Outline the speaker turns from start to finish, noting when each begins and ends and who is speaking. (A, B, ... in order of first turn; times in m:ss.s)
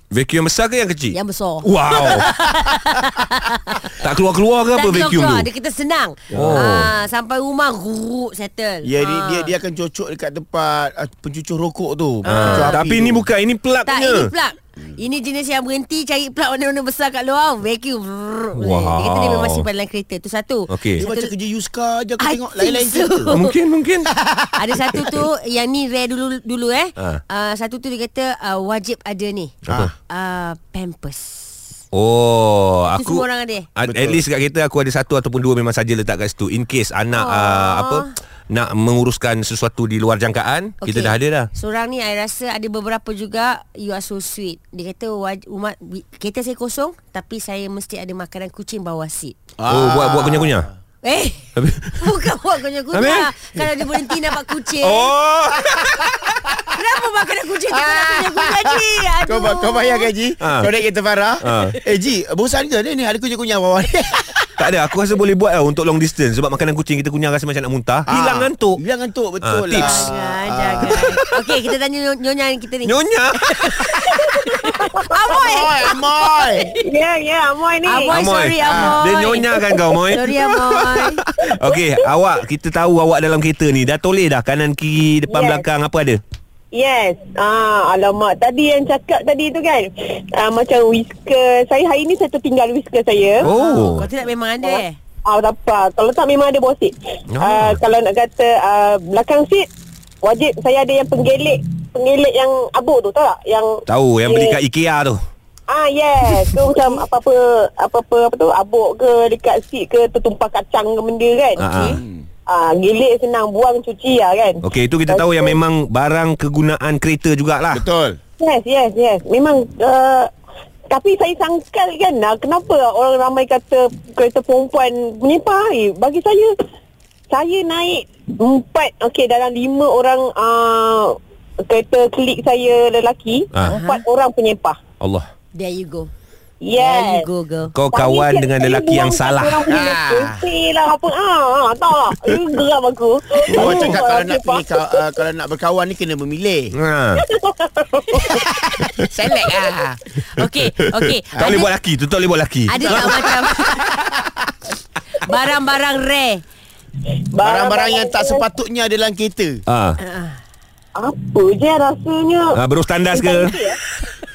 0:00.1-0:02.3 A
0:01.1-0:04.0 B
0:02.1-0:03.2 C
0:04.0-0:05.5 A
0:04.7-0:09.5 B
0:06.3-0:06.7 C
0:06.3-0:06.9 A
0:08.8-0:13.2 C
0:12.2-0:12.8 B
0:12.2-0:14.3 A
0:13.8-0:21.3 B
0:18.6-0:19.6 A
0:20.7-0:21.0 A
0:21.0-0:23.4 C
0:22.2-0:23.5 B
0:23.3-0:24.1 A
0:24.0-0:25.1 C
0:24.6-0:29.5 B
0:29.7-0:29.9 A
0:30.1-0:31.7 B
0:31.9-0:41.5 A
0:32.9-0:33.7 B
0:33.8-0:34.2 C
0:37.1-0:38.1 B
0:40.8-0:49.4 B
0:49.6-0:50.7 C
0:49.7-0:50.7 A
0:51.0-0:55.1 B
0:51.6-0:52.1 A
0:52.9-0:53.3 A
0:54.8-0:55.8 A
0:56.6-1:00.1 B
0:57.7-1:04.4 C
1:00.4-1:00.7 A
1:01.4-1:01.8 A
1:04.6-1:08.8 A
1:08.1-1:11.2 C
1:09.4-1:10.1 A
1:09.8-1:16.8 B
1:12.8-1:14.1 A
1:14.6-1:15.0 D
1:15.4-1:16.7 C
1:16.8-1:18.4 D
1:17.8-1:21.2 B
1:18.1-1:26.2 A
1:18.6-1:19.0 C
1:25.3-1:25.6 D
1:26.7-1:33.5 D
1:33.4-1:35.0 B
1:33.4-1:34.1 A
1:34.6-1:39.7 D
1:37.3-1:37.8 A
1:40.2-1:44.6 D
1:43.9-1:45.2 A
1:45.7-1:51.6 D
1:46.5-1:47.0 B
1:51.6-1:52.0 B
1:51.6-1:52.0 A
1:51.8-1:52.2 C
1:52.5-1:55.6 D
1:54.6-1:57.8 A
1:57.7-1:58.2 C
1:58.4-2:00.3 D
2:00.9-2:06.6 D
2:07.3-2:14.8 D
2:13.5-2:13.8 A
2:13.6-2:14.0 B
2:15.0-2:15.3 A
2:15.5-2:16.1 B
2:16.6-2:17.2 D
2:16.7-2:17.7 B
2:17.7-2:19.7 A
2:17.9-2:25.1 D
2:19.7-2:20.5 C
2:23.5-2:26.7 C
2:26.7-2:27.3 A
2:27.2-2:28.4 D
2:28.2-2:30.0 C
2:29.4-2:29.7 B
2:30.3-2:31.7 B
2:30.4-2:33.7 A
2:31.3-2:31.7 C
2:32.7-2:33.9 B
2:32.9-2:33.2 C
2:33.7-2:34.5 C
2:35.2-2:36.4 B
2:37.0-2:38.4 D
2:37.4-2:39.6 C
2:39.7-2:40.0 A
2:40.0-2:40.4 B
2:41.0-2:42.6 D
2:42.5-2:43.6 A
2:43.1-2:43.8 D